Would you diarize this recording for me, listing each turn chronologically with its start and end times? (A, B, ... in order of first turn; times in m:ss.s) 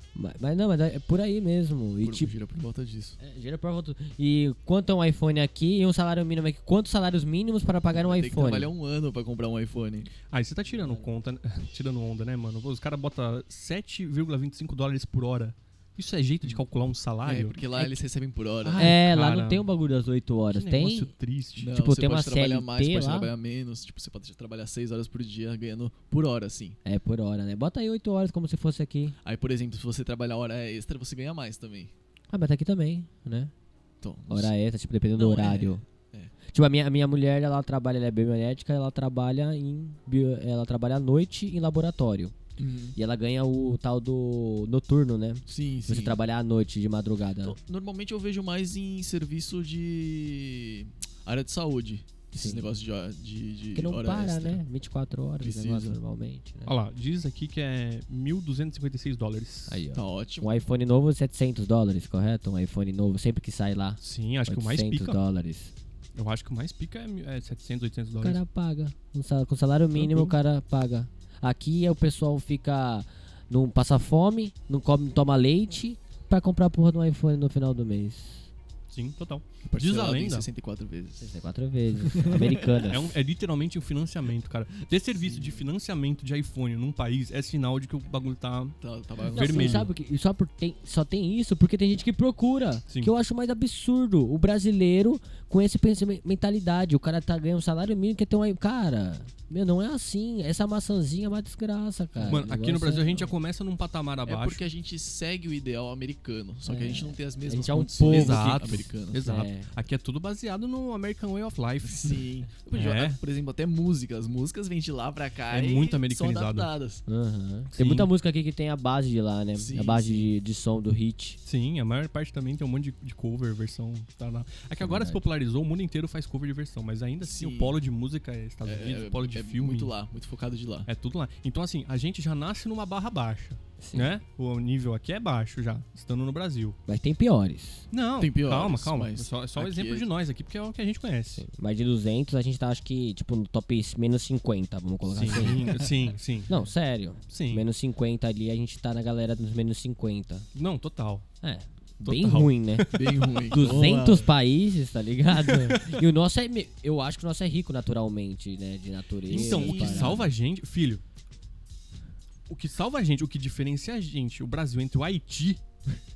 0:00.2-0:02.3 A
0:02.0-0:03.2 B
0:03.2-0:08.7 A
0:07.9-0:10.1 B
0:10.3-0:17.6 C
0:10.7-0:11.1 A
0:17.2-0:19.0 B
0:18.6-0:19.7 C
0:18.8-0:21.1 A
0:20.5-0:21.8 C
0:21.6-0:26.8 B
0:21.7-0:23.3 A
0:26.8-0:29.2 A
0:29.2-0:31.9 B
0:32.3-0:33.5 A
0:34.0-0:34.5 B
0:34.3-0:35.8 A
0:35.2-0:36.3 B
0:36.5-0:42.4 A
0:42.6-0:43.0 B
0:43.0-0:47.6 A
0:45.5-0:46.2 B
0:47.4-0:54.6 B
0:52.4-0:52.7 A
0:53.8-0:56.7 A
0:55.4-0:56.0 B
0:56.7-0:59.8 C
0:59.7-1:05.7 A
0:59.9-1:00.5 B
1:04.0-1:05.2 C
1:06.2-1:08.4 C
1:08.2-1:18.5 A
1:09.9-1:10.4 C
1:18.9-1:20.5 C
1:19.7-1:21.3 B
1:21.2-1:23.2 A
1:22.0-1:22.8 B
1:22.8-1:28.8 C
1:25.2-1:25.6 B
1:28.8-1:29.9 B
1:29.3-1:29.9 C
1:29.3-1:43.3 A
1:42.2-1:44.6 C
1:44.3-1:49.2 B
1:46.7-1:49.7 A
1:48.0-1:52.2 C
1:51.8-1:57.0 B
1:52.7-1:53.2 C
1:55.5-1:56.7 C
1:57.1-2:01.4 A
1:57.7-1:58.1 C
1:59.6-2:00.3 B
2:01.4-2:09.9 C
2:04.8-2:05.2 A
2:07.2-2:07.8 B
2:08.6-2:10.9 B
2:10.9-2:16.8 C
2:13.8-2:14.2 A
2:16.9-2:17.9 A
2:17.9-2:21.4 C
2:18.2-2:20.1 B
2:21.4-2:25.7 A
2:25.1-2:26.5 C
2:26.5-2:30.5 A
2:27.3-2:27.6 C
2:30.5-2:31.3 C
2:31.4-2:33.0 A
2:32.0-2:33.0 C
2:32.9-2:34.3 B
2:33.5-2:40.2 A
2:35.4-2:36.0 C
2:39.3-2:40.3 B
2:39.3-2:41.0 C
2:42.5-2:45.6 C